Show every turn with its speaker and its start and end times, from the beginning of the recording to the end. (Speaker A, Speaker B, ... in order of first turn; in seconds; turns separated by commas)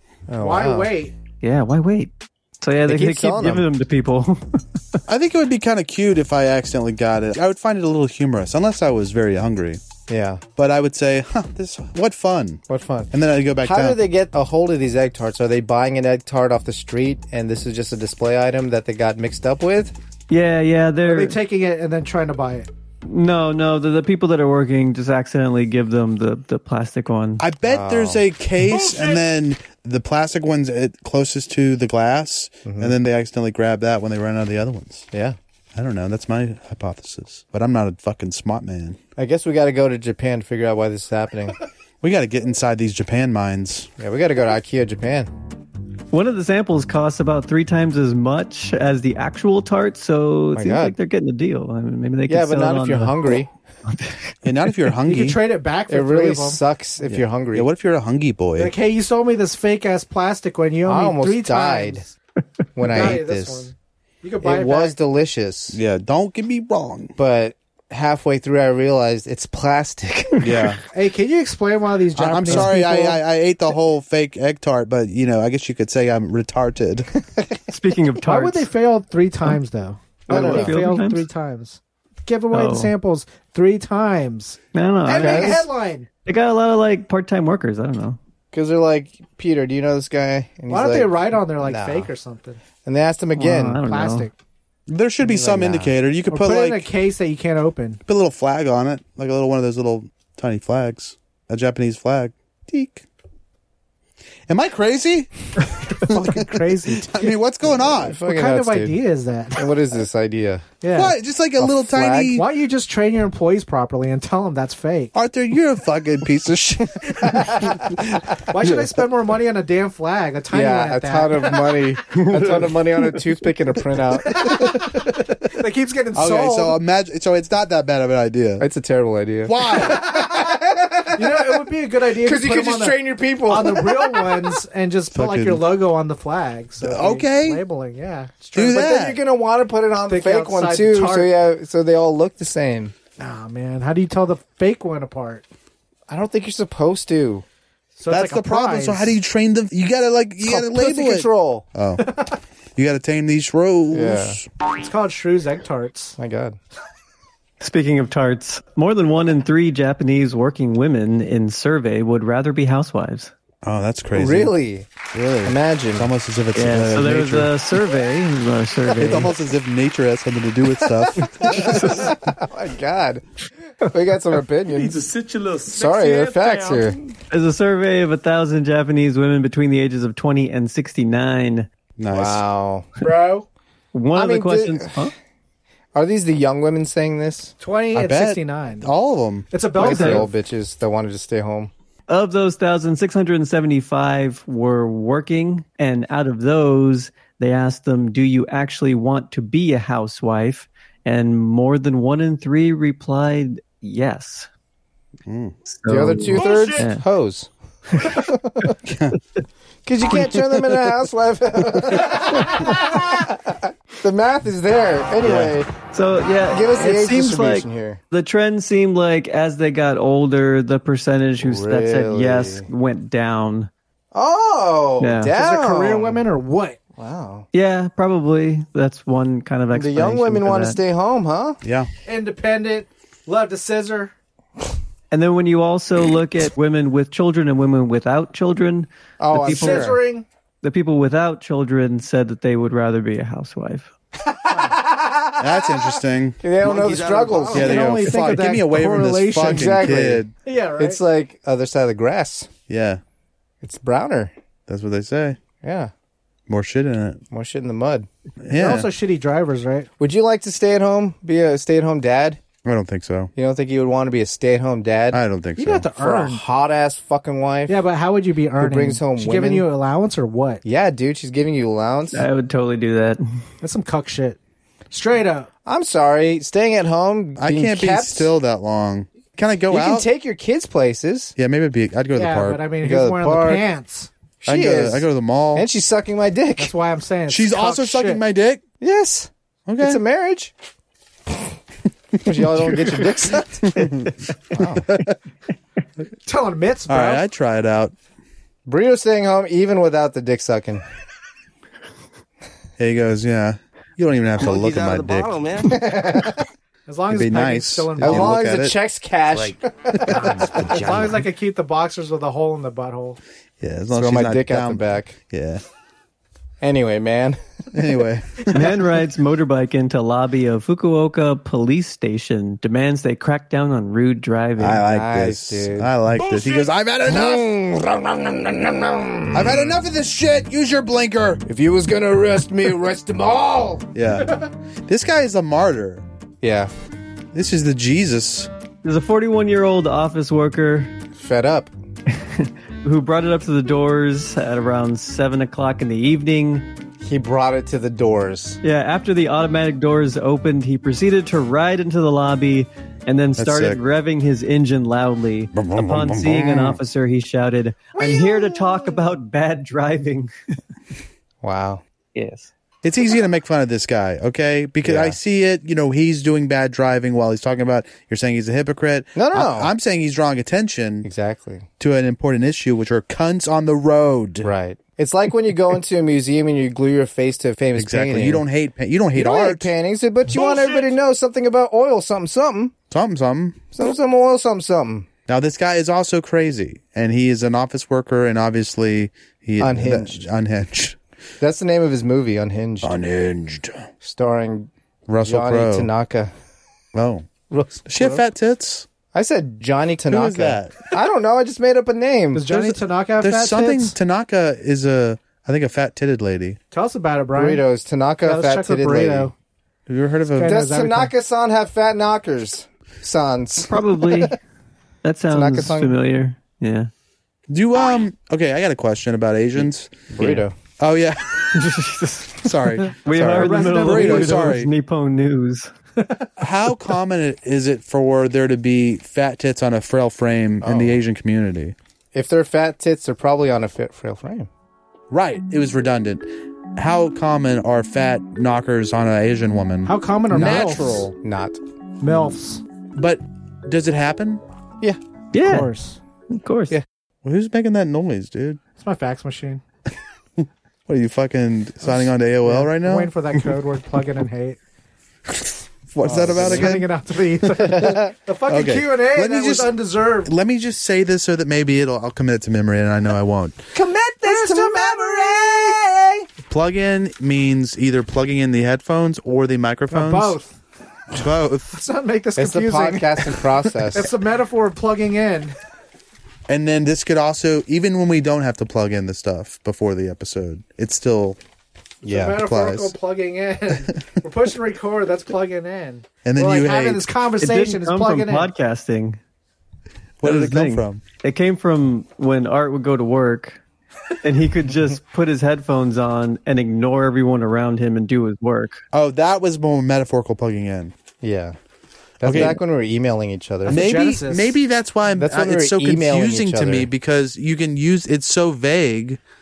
Speaker A: 0.3-0.9, Speaker B: 0.4-1.1, Speaker C: 1.4-5.0, Speaker A: 2.8-3.7, Speaker D: 5.1-9.8, Speaker A: 10.1-10.4, Speaker D: 10.6-12.6, Speaker A: 12.7-19.9, Speaker D: 13.1-14.0, Speaker C: 20.3-21.4, Speaker B: 21.0-22.7, Speaker C: 23.1-27.4, Speaker D: 27.4-35.1, Speaker A: 27.6-28.2, Speaker E: 28.8-29.2, Speaker A: 32.6-33.0, Speaker A: 35.1-35.4, Speaker D: 35.7-39.0, Speaker A: 39.2-41.6, Speaker D: 42.0-43.9, Speaker A: 44.0-45.3, Speaker C: 46.1-54.3, Speaker A: 50.5-50.9, Speaker A: 52.3-53.5, Speaker D: 54.4-55.4, Speaker B: 55.1-56.6, Speaker A: 55.9-57.7, Speaker D: 57.1-58.7, Speaker B: 58.5-62.1, Speaker A: 60.8-62.0, Speaker A: 62.7-63.7, Speaker B: 62.9-65.0, Speaker A: 64.4-65.8, Speaker D: 65.7-67.1, Speaker A: 67.2-70.7, Speaker D: 70.4-70.8, Speaker B: 70.9-73.2, Speaker D: 72.1-77.1, Speaker C: 77.7-78.7, Speaker B: 78.2-86.1, Speaker A: 80.3-80.8, Speaker C: 80.3-81.2, Speaker C: 82.5-82.9, Speaker C: 84.7-85.7, Speaker A: 85.2-85.6, Speaker C: 86.2-88.2, Speaker A: 88.5-92.1, Speaker B: 90.7-92.6, Speaker A: 92.8-93.8, Speaker C: 93.4-94.3, Speaker B: 93.8-94.3, Speaker D: 94.9-96.9, Speaker A: 95.2-95.9, Speaker B: 96.3-98.0, Speaker D: 98.1-103.0, Speaker D: 104.5-108.2, Speaker B: 105.9-107.3, Speaker A: 107.8-109.0, Speaker B: 108.2-109.6, Speaker A: 109.5-110.7, Speaker B: 110.8-111.2, Speaker D: 110.9-112.4, Speaker A: 111.6-112.4, Speaker B: 112.3-115.1, Speaker D: 115.1-118.8, Speaker B: 118.5-121.8, Speaker A: 120.5-124.7, Speaker C: 122.2-122.4, Speaker B: 124.2-126.8, Speaker D: 126.1-128.7, Speaker A: 128.6-134.5, Speaker D: 129.4-130.1, Speaker B: 129.8-130.4, Speaker B: 131.1-139.0, Speaker D: 135.1-135.7, Speaker D: 136.8-137.6, Speaker D: 138.5-139.2, Speaker A: 138.7-142.9, Speaker B: 140.1-141.3, Speaker B: 143.2-145.4, Speaker A: 146.1-147.4, Speaker B: 148.0-149.2, Speaker D: 148.1-152.2, Speaker A: 150.4-151.6, Speaker D: 152.8-154.4, Speaker A: 153.9-154.4, Speaker B: 154.8-156.2, Speaker A: 156.2-156.6, Speaker C: 157.6-163.3, Speaker D: 163.6-164.5, Speaker A: 164.1-164.9, Speaker D: 165.1-167.5, Speaker A: 165.4-166.1, Speaker C: 166.5-169.3, Speaker D: 168.9-172.1, Speaker A: 171.2-173.2, Speaker C: 171.7-172.1, Speaker A: 173.8-175.0, Speaker E: 174.7-176.9, Speaker A: 175.7-177.1, Speaker C: 177.3-181.7, Speaker D: 182.0-182.4, Speaker A: 182.1-182.9, Speaker B: 183.0-183.5, Speaker C: 183.9-185.1, Speaker A: 184.1-185.0, Speaker A: 185.9-187.5, Speaker B: 187.6-188.9, Speaker D: 187.9-189.5, Speaker B: 189.5-190.3, Speaker A: 189.8-191.7, Speaker C: 189.8-190.2, Speaker C: 192.1-204.5, Speaker D: 205.3-205.5, Speaker C: 205.7-207.0, Speaker A: 205.9-207.5, Speaker E: 206.4-206.8, Speaker A: 208.0-208.7, Speaker D: 208.8-209.2, Speaker A: 209.8-215.7, Speaker D: 215.2-215.6, Speaker C: 215.9-223.7, Speaker A: 216.5-218.0, Speaker A: 221.4-222.7, Speaker A: 224.1-226.2, Speaker C: 225.0-225.3, Speaker B: 225.3-226.8, Speaker A: 227.0-227.5, Speaker C: 227.5-230.8, Speaker A: 229.7-231.6, Speaker D: 231.6-231.9, Speaker B: 232.1-234.1, Speaker C: 235.1-240.0, Speaker A: 239.2-240.0, Speaker B: 239.4-240.2, Speaker C: 240.6-243.9, Speaker A: 244.5-248.0, Speaker D: 245.4-246.4, Speaker F: 246.5-247.8, Speaker B: 247.5-249.9, Speaker D: 247.5-250.3, Speaker A: 249.4-250.2, Speaker B: 250.4-251.0, Speaker A: 250.8-252.5, Speaker D: 252.7-253.0, Speaker A: 253.6-254.3, Speaker D: 254.7-255.4, Speaker A: 255.6-255.9, Speaker D: 256.5-257.2, Speaker A: 257.3-258.1, Speaker D: 258.4-258.9, Speaker B: 258.5-259.9, Speaker A: 260.0-262.4, Speaker D: 262.6-263.3, Speaker A: 263.4-265.2, Speaker D: 265.1-265.9, Speaker B: 265.6-266.4, Speaker A: 265.9-267.8, Speaker B: 267.7-270.6, Speaker A: 268.6-269.7, Speaker A: 270.6-272.3, Speaker C: 272.1-273.2, Speaker B: 273.6-274.4, Speaker B: 274.9-275.5, Speaker A: 275.6-278.3, Speaker D: 277.4-280.1, Speaker A: 279.7-281.3, Speaker D: 281.4-282.7, Speaker B: 282.1-284.1, Speaker A: 282.8-283.6, Speaker A: 284.4-286.7, Speaker D: 284.4-285.7, Speaker B: 286.6-288.2, Speaker D: 287.3-288.6, Speaker A: 288.8-290.5, Speaker D: 289.7-290.0, Speaker A: 292.2-293.8, Speaker D: 293.6-294.1, Speaker A: 294.5-294.8, Speaker D: 294.8-295.1, Speaker B: 296.2-297.2, Speaker D: 296.9-297.9, Speaker A: 298.6-300.8, Speaker D: 302.8-305.4, Speaker F: 304.4-305.8, Speaker A: 305.6-306.4, Speaker B: 306.9-308.4, Speaker D: 307.1-308.8, Speaker A: 308.0-310.5, Speaker F: 309.3-311.2, Speaker B: 310.3-313.2, Speaker D: 313.6-315.6, Speaker A: 313.9-315.1, Speaker A: 316.6-317.4, Speaker D: 317.7-318.7, Speaker C: 318.5-324.8, Speaker D: 324.6-327.5, Speaker A: 324.8-326.3, Speaker E: 326.4-326.7, Speaker A: 327.0-329.8, Speaker D: 329.3-331.4, Speaker A: 331.4-333.9, Speaker D: 333.9-336.0, Speaker A: 336.4-336.7, Speaker D: 337.3-338.5, Speaker C: 338.8-340.9, Speaker A: 341.2-341.7, Speaker C: 342.2-346.7, Speaker A: 347.0-348.6, Speaker C: 348.6-360.3, Speaker D: 353.4-353.8, Speaker D: 355.5-356.8, Speaker A: 357.9-359.0, Speaker A: 361.4-361.8, Speaker C: 362.1-362.5, Speaker D: 362.8-371.1, Speaker A: 364.8-365.2, Speaker A: 369.1-369.7, Speaker A: 371.0-371.7, Speaker D: 371.8-374.5, Speaker A: 374.4-378.4, Speaker D: 377.8-379.7, Speaker A: 379.1-382.7, Speaker D: 382.9-383.7, Speaker A: 383.7-385.1, Speaker D: 385.3-391.0, Speaker A: 389.6-390.2, Speaker A: 391.4-393.0, Speaker D: 392.8-393.9, Speaker A: 394.0-394.7, Speaker D: 395.1-395.9, Speaker A: 395.2-396.3, Speaker D: 396.9-397.3, Speaker A: 397.5-398.2, Speaker D: 397.9-398.9, Speaker A: 399.1-402.7, Speaker D: 400.1-400.9, Speaker B: 402.3-403.9, Speaker D: 403.2-406.6, Speaker B: 406.7-407.6, Speaker A: 407.3-409.3, Speaker B: 408.2-409.3, Speaker D: 409.9-410.5, Speaker B: 410.3-411.1, Speaker A: 410.4-414.3, Speaker C: 413.7-414.4, Speaker C: 415.0-416.9, Speaker A: 415.3-416.0, Speaker D: 417.5-420.0, Speaker A: 420.1-420.5, Speaker D: 420.8-421.2, Speaker C: 421.5-425.7, Speaker D: 422.4-424.7, Speaker B: 423.1-424.5, Speaker B: 426.0-426.3, Speaker D: 426.4-431.7, Speaker A: 430.6-431.0, Speaker A: 432.1-434.5, Speaker D: 435.1-441.1, Speaker B: 439.8-441.1, Speaker A: 441.2-441.6, Speaker B: 442.0-442.6, Speaker D: 442.9-444.4, Speaker C: 445.3-445.7, Speaker B: 445.4-446.0, Speaker C: 446.3-446.8, Speaker D: 447.2-448.6, Speaker B: 448.8-449.6, Speaker D: 450.4-453.1, Speaker B: 451.8-454.6, Speaker D: 455.4-456.9, Speaker B: 456.0-460.3, Speaker A: 456.0-456.7, Speaker A: 457.7-458.1, Speaker D: 458.5-463.6, Speaker A: 463.7-466.3, Speaker B: 464.2-465.7, Speaker D: 466.5-470.4, Speaker B: 469.9-470.5, Speaker D: 471.1-471.7, Speaker B: 471.7-473.4, Speaker A: 472.4-474.1, Speaker B: 473.9-475.5, Speaker D: 476.5-481.4, Speaker B: 482.0-488.5, Speaker A: 482.1-482.4, Speaker D: 482.1-482.9, Speaker D: 486.2-487.0, Speaker C: 487.4-489.2, Speaker D: 490.2-491.0, Speaker C: 490.2-493.6, Speaker C: 494.2-498.8, Speaker D: 498.9-500.9, Speaker A: 501.2-501.6, Speaker A: 502.2-503.8, Speaker D: 502.2-502.6, Speaker B: 503.6-504.6, Speaker D: 503.7-509.2, Speaker A: 505.1-506.9